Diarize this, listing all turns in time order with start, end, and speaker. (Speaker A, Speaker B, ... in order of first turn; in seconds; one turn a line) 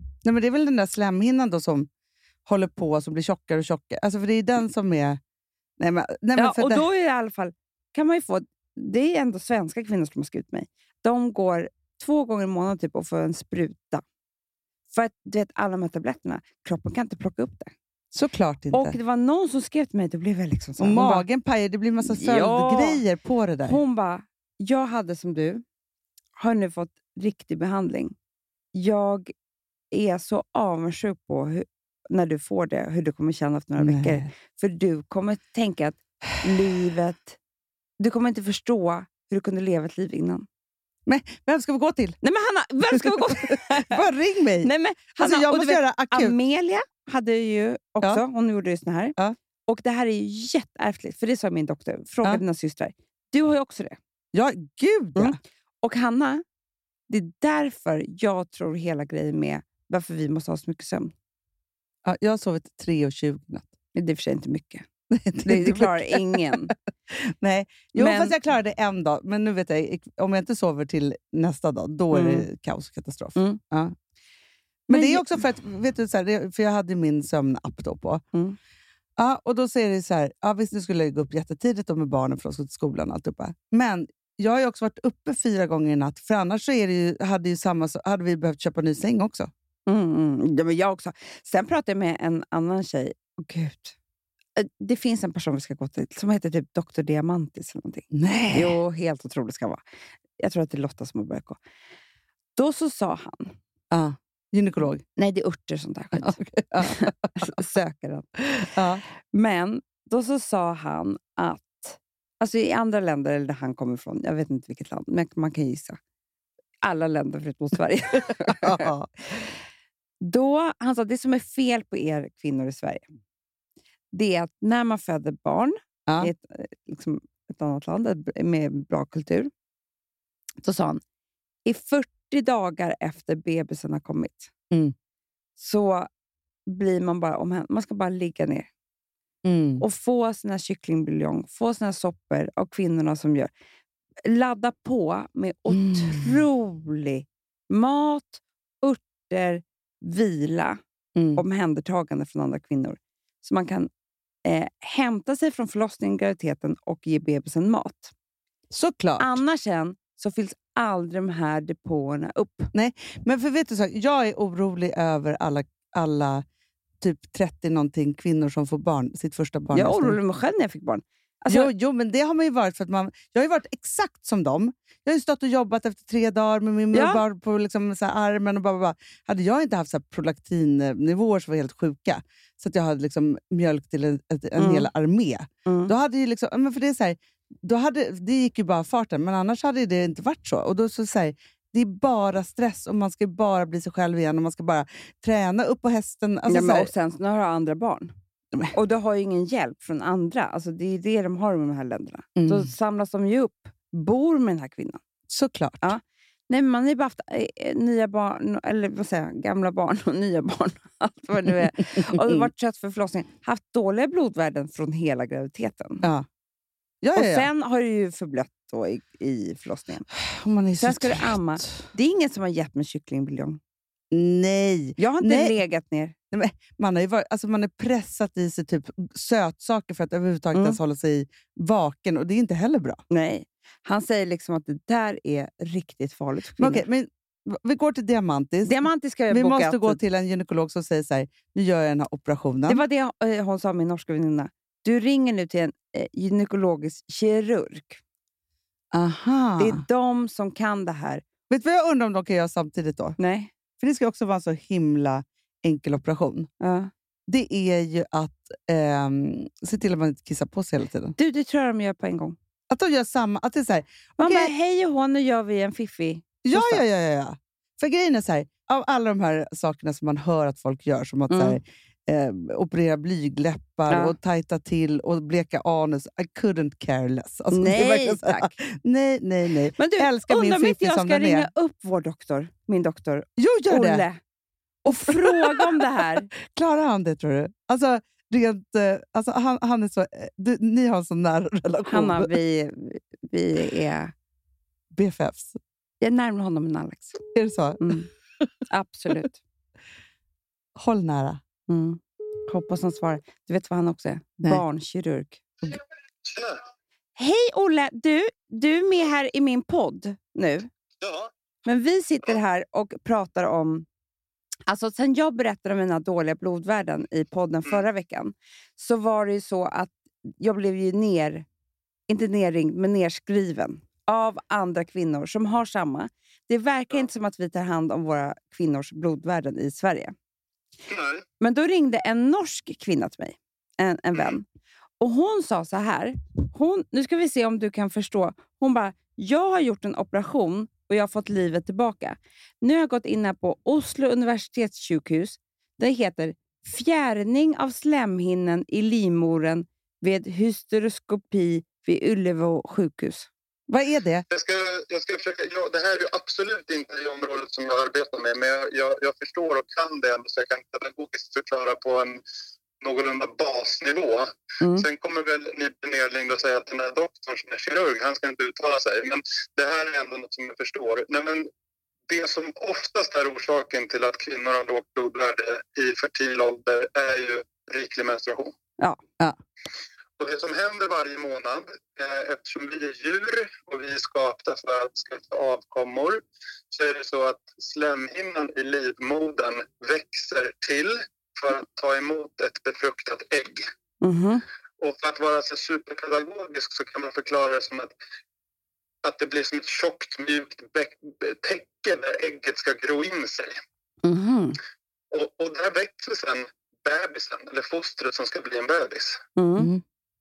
Speaker A: 0.2-1.9
Speaker A: 2.5-5.2
Speaker A: 5.8-6.8
Speaker B: 6.3-14.0
Speaker B: 14.9-17.7
Speaker A: 18.1-19.0
Speaker B: 18.7-21.2
Speaker A: 20.8-23.8
Speaker B: 22.0-23.0
Speaker B: 23.6-25.6
Speaker B: 26.4-28.1
Speaker B: 28.7-29.3
Speaker B: 29.9-37.4
Speaker A: 33.8-34.3
Speaker B: 38.0-40.5
Speaker A: 41.0-42.2
Speaker B: 42.2-44.0
Speaker A: 42.9-46.3
Speaker B: 44.6-49.1
Speaker B: 49.7-54.0
Speaker A: 54.3-55.4
Speaker B: 55.1-56.4
Speaker B: 57.1-61.1
Speaker A: 62.0-63.7
Speaker B: 63.9-64.8
Speaker A: 65.1-73.9
Speaker B: 65.4-66.7
Speaker B: 68.0-68.3
Speaker B: 72.1-72.5
Speaker A: 74.9-78.2
Speaker B: 74.9-75.2
Speaker A: 79.2-89.5
Speaker B: 89.9-94.0
Speaker B: 94.6-99.8
Speaker A: 98.1-98.8
Speaker B: 100.4-101.6
Speaker B: 102.5-103.5
Speaker A: 103.9-105.0
Speaker B: 105.2-108.3
Speaker A: 106.2-107.5
Speaker A: 108.5-109.0
Speaker B: 109.3-116.0
Speaker B: 116.8-118.9
Speaker A: 118.4-119.1
Speaker B: 120.2-123.0
Speaker B: 124.1-129.5
Speaker B: 130.6-131.0
Speaker B: 131.7-134.5
Speaker B: 135.6-136.1
Speaker B: 136.7-138.7
Speaker A: 139.4-139.8
Speaker B: 139.8-143.5
Speaker B: 144.2-150.8
Speaker A: 145.7-146.4
Speaker A: 151.2-151.4
Speaker B: 151.3-153.9
Speaker B: 154.4-158.1
Speaker A: 158.7-159.4
Speaker B: 159.2-162.7
Speaker A: 162.7-166.4
Speaker A: 167.0-170.2
Speaker B: 169.7-171.7
Speaker A: 171.5-196.9
Speaker B: 176.9-177.2
Speaker B: 184.6-184.9
Speaker B: 185.7-185.9
Speaker B: 196.5-198.1
Speaker B: 198.7-205.0
Speaker A: 202.3-202.7
Speaker A: 205.3-205.9
Speaker B: 205.8-216.0
Speaker A: 212.0-212.4
Speaker A: 217.0-217.5
Speaker B: 217.1-220.1
Speaker A: 220.2-221.8
Speaker B: 220.8-223.6
Speaker A: 224.1-225.6
Speaker B: 225.0-226.1
Speaker A: 226.3-233.0
Speaker B: 230.5-230.8
Speaker B: 233.1-236.8
Speaker A: 236.6-242.8
Speaker B: 238.6-240.0
Speaker B: 242.7-248.0
Speaker A: 248.9-249.8
Speaker B: 249.6-251.2
Speaker A: 251.5-253.2
Speaker B: 253.2-253.5
Speaker A: 253.8-256.5
Speaker B: 256.6-256.9
Speaker A: 257.3-261.1
Speaker B: 261.2-262.4
Speaker A: 262.7-264.5
Speaker B: 264.2-266.8
Speaker A: 266.4-281.5
Speaker B: 271.3-271.6
Speaker B: 273.9-274.1
Speaker B: 277.5-278.5
Speaker B: 279.8-284.2
Speaker A: 283.4-284.0
Speaker A: 284.8-285.8
Speaker B: 284.9-286.3
Speaker A: 286.4-292.3
Speaker B: 291.9-294.1
Speaker A: 294.9-295.6
Speaker B: 296.0-297.2
Speaker A: 297.3-297.9
Speaker B: 297.8-298.1
Speaker B: 298.7-299.4
Speaker A: 300.8-301.4
Speaker B: 301.7-305.4
Speaker C: 306.2-306.6
Speaker B: 307.2-310.7
Speaker C: 311.0-311.3
Speaker B: 311.6-313.9
Speaker B: 314.7-321.4
Speaker B: 322.1-330.1
Speaker C: 330.9-331.2
Speaker B: 331.4-334.4
Speaker B: 335.0-353.3
Speaker A: 353.7-354.2
Speaker C: 354.3-362.2
Speaker C: 362.8-371.5
Speaker B: 364.6-364.9
Speaker C: 372.1-378.5
Speaker C: 380.2-393.6
Speaker B: 394.0-394.4
Speaker C: 394.8-397.9
Speaker C: 399.0-403.5
Speaker B: 404.0-404.6
Speaker C: 405.1-409.2
Speaker B: 409.4-409.7